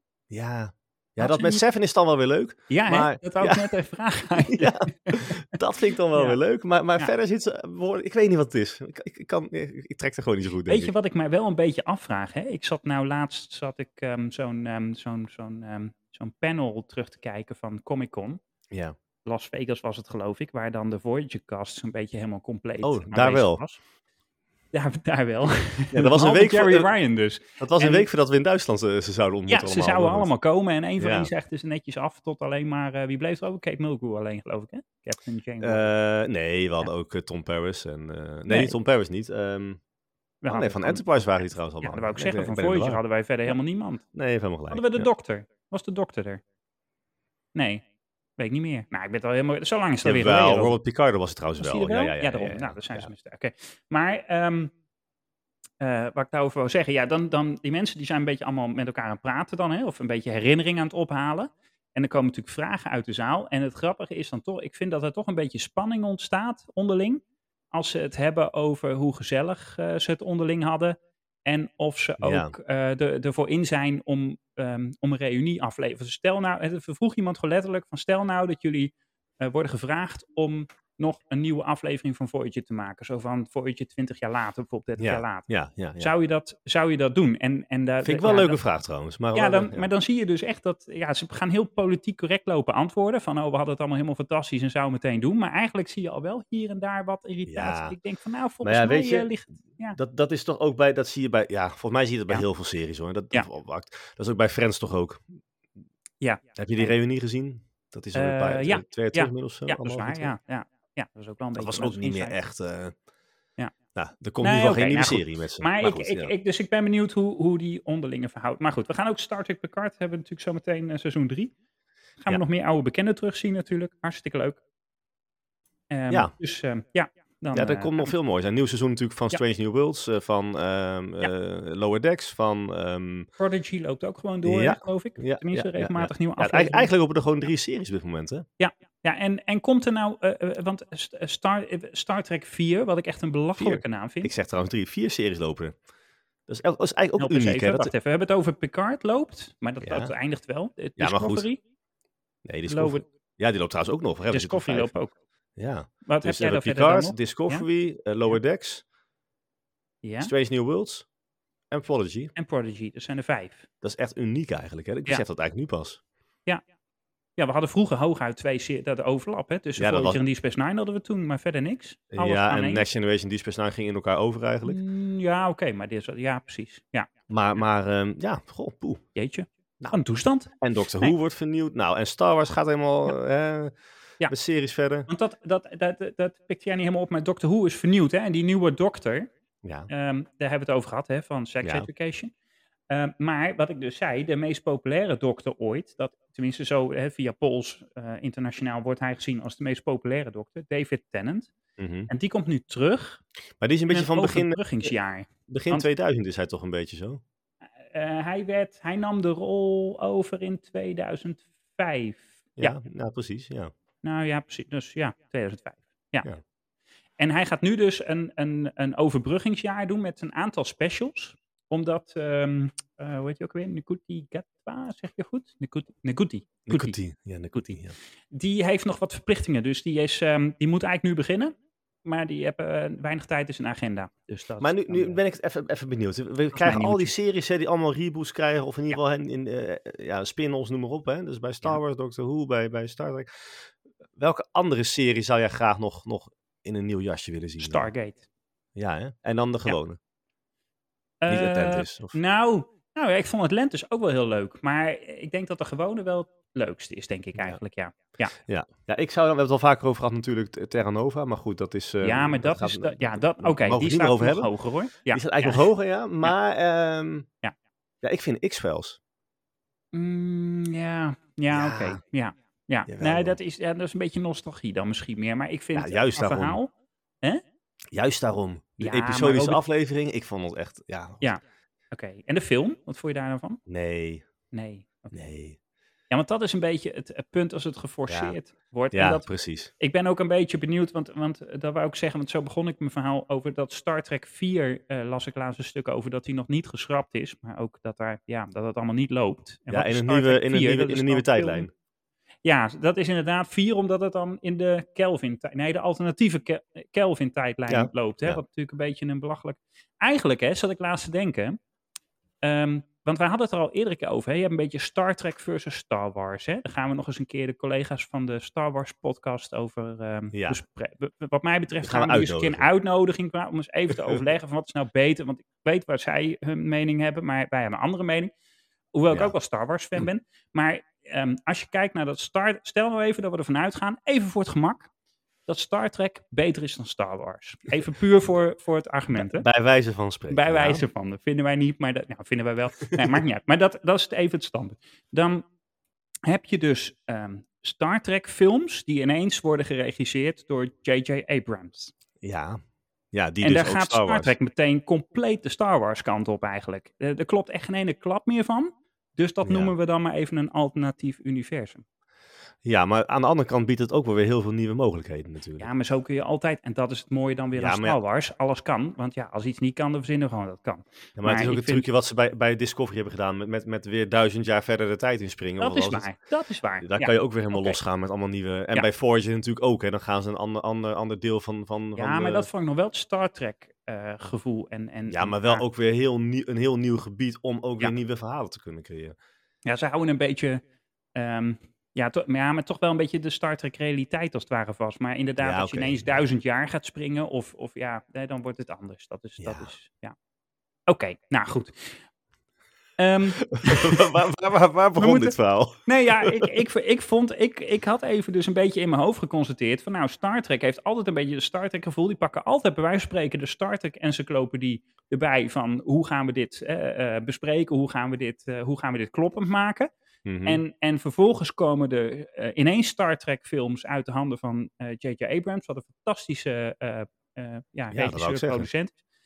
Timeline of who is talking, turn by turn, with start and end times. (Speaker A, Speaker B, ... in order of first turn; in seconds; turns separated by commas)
Speaker A: 0.3-3.7, Speaker B: 1.2-1.6, Speaker B: 2.7-5.5, Speaker A: 4.4-10.9, Speaker B: 6.1-6.4, Speaker B: 10.7-18.4, Speaker B: 19.2-23.8, Speaker A: 22.8-23.6, Speaker B: 24.7-28.1, Speaker A: 25.9-26.9, Speaker A: 27.6-30.3, Speaker B: 29.5-35.9, Speaker A: 31.0-31.3, Speaker A: 35.6-39.8, Speaker B: 38.5-38.8, Speaker B: 40.4-41.0, Speaker A: 40.5-43.6, Speaker B: 41.8-44.0, Speaker A: 44.1-45.1, Speaker B: 44.7-46.4, Speaker B: 47.5-47.8, Speaker B: 48.4-50.8, Speaker A: 50.0-53.1, Speaker B: 51.6-54.7, Speaker B: 55.8-67.2, Speaker B: 67.7-88.6, Speaker A: 72.2-72.5, Speaker A: 85.0-86.1, Speaker A: 88.0-89.9, Speaker B: 89.3-100.0, Speaker A: 97.5-98.0, Speaker A: 98.6-99.3, Speaker A: 99.9-105.2, Speaker B: 106.2-106.9, Speaker A: 106.5-110.3, Speaker B: 108.1-112.4, Speaker A: 111.5-113.0, Speaker A: 113.9-116.3, Speaker B: 114.4-121.5, Speaker B: 122.2-124.6, Speaker B: 125.9-128.1, Speaker A: 127.5-133.3, Speaker B: 133.4-136.9, Speaker A: 134.4-138.4, Speaker B: 138.6-144.3, Speaker A: 143.6-145.8, Speaker A: 146.5-147.9, Speaker B: 147.2-151.6, Speaker A: 149.8-150.1, Speaker A: 151.0-151.5, Speaker A: 152.4-154.9, Speaker B: 152.7-153.0, Speaker B: 154.3-155.1, Speaker A: 155.6-158.8, Speaker B: 156.1-157.7, Speaker B: 160.0-160.3, Speaker A: 160.2-161.1, Speaker A: 161.7-162.3, Speaker B: 162.3-163.7, Speaker A: 163.8-166.0, Speaker B: 167.4-172.9, Speaker A: 169.8-170.2, Speaker A: 172.1-174.8, Speaker B: 174.6-177.1, Speaker A: 177.3-179.0, Speaker B: 179.2-181.1, Speaker A: 180.6-183.8, Speaker A: 184.3-185.1, Speaker B: 185.1-189.3, Speaker A: 189.6-189.9, Speaker B: 189.9-192.3, Speaker A: 191.6-191.9, Speaker B: 192.9-201.5, Speaker A: 201.8-202.1, Speaker B: 202.1-203.2, Speaker A: 203.6-204.9, Speaker B: 203.9-205.8, Speaker A: 205.5-207.2, Speaker B: 207.8-212.8, Speaker A: 212.6-213.7, Speaker B: 214.0-216.3, Speaker B: 217.2-227.0, Speaker A: 226.7-227.9, Speaker B: 228.3-235.2, Speaker A: 234.6-243.6, Speaker B: 236.5-237.1, Speaker A: 244.2-247.9, Speaker B: 247.6-248.2, Speaker A: 248.8-250.0, Speaker B: 251.2-258.3, Speaker A: 251.3-252.2, Speaker A: 258.4-264.5, Speaker B: 262.0-265.7, Speaker A: 265.1-267.3, Speaker A: 268.0-269.0, Speaker B: 269.9-276.7, Speaker A: 271.5-272.0, Speaker A: 272.9-273.4, Speaker A: 275.7-276.6, Speaker A: 277.9-281.2, Speaker B: 278.8-279.6, Speaker B: 281.2-283.6, Speaker A: 283.7-284.2, Speaker B: 284.5-285.2, Speaker A: 285.1-285.6, Speaker B: 286.1-289.2, Speaker A: 288.1-288.4, Speaker A: 288.9-289.7, Speaker B: 289.8-301.7, Speaker A: 299.7-301.7, Speaker B: 302.4-311.6, Speaker A: 307.7-308.4, Speaker B: 312.4-328.3, Speaker A: 320.3-320.6, Speaker A: 321.8-322.7, Speaker B: 328.9-334.9, Speaker B: 335.5-339.4, Speaker A: 339.1-340.8, Speaker B: 340.3-345.4, Speaker B: 346.3-351.9, Speaker A: 352.2-352.6, Speaker A: 353.1-354.3, Speaker B: 353.4-361.8, Speaker A: 359.4-359.7, Speaker A: 362.6-365.7, Speaker B: 365.6-371.9, Speaker A: 367.5-368.0, Speaker A: 371.2-376.1, Speaker B: 375.6-377.8, Speaker A: 376.8-382.5, Speaker B: 381.9-385.6, Speaker A: 385.1-389.1, Speaker B: 389.6-390.6, Speaker B: 391.1-400.1, Speaker A: 395.4-396.2, Speaker A: 399.4-399.7, Speaker B: 400.9-402.0, Speaker B: 403.0-404.2, Speaker A: 403.4-406.5, Speaker B: 404.9-405.3, Speaker B: 405.9-419.9, Speaker A: 420.2-420.6, Speaker B: 420.4-428.9, Speaker A: 427.9-428.7